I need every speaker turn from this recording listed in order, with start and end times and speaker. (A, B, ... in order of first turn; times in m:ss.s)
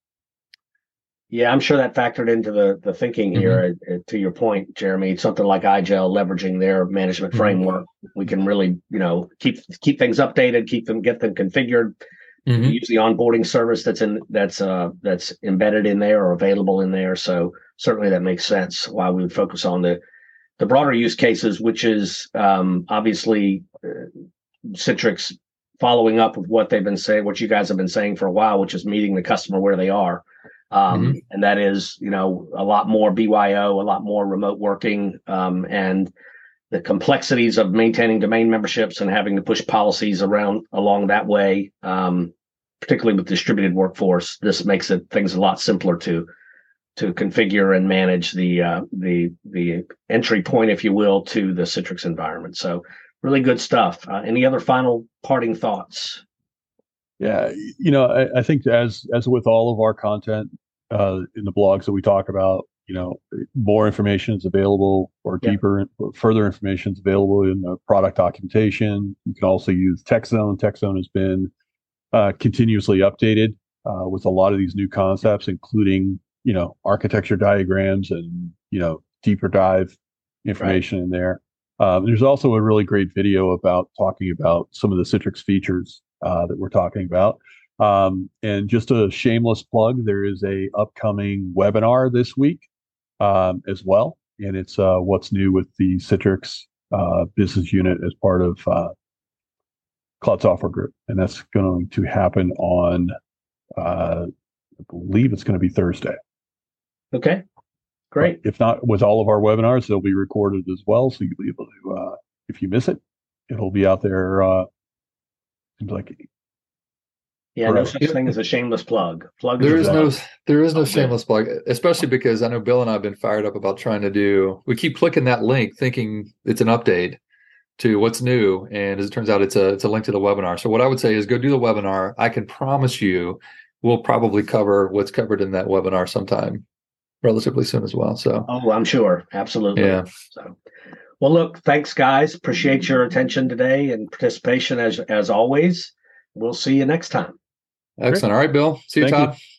0:01.3-0:12.0 A
0:03.4-0:03.6 B
0:12.5-0:12.8 B
0:12.6-0:20.0 A
0:20.6-0:24.1 A
0:24.7-0:36.1 A
0:30.9-0:31.2 B
0:36.7-0:46.3 A
0:47.0-0:56.2 A
0:57.2-1:11.5 C
1:12.1-1:32.7 C
1:33.2-1:38.9 C
1:40.2-1:43.1 C
1:43.8-1:44.3 C
1:44.8-1:46.2 C
1:47.1-1:47.4 A
1:48.1-1:48.4 A
1:48.2-1:54.7 C
1:55.8-1:56.2 C
1:57.6-2:00.2 A
1:57.7-1:58.0 C
1:59.6-2:00.0 C
1:59.6-2:07.2 B
2:00.8-2:01.1 A
2:07.8-2:16.6 B
2:17.2-2:18.5 B
2:18.5-2:20.6 A
2:19.8-2:20.0 B
2:21.2-2:27.4 A
2:28.0-2:29.4 B
2:29.0-2:29.3 C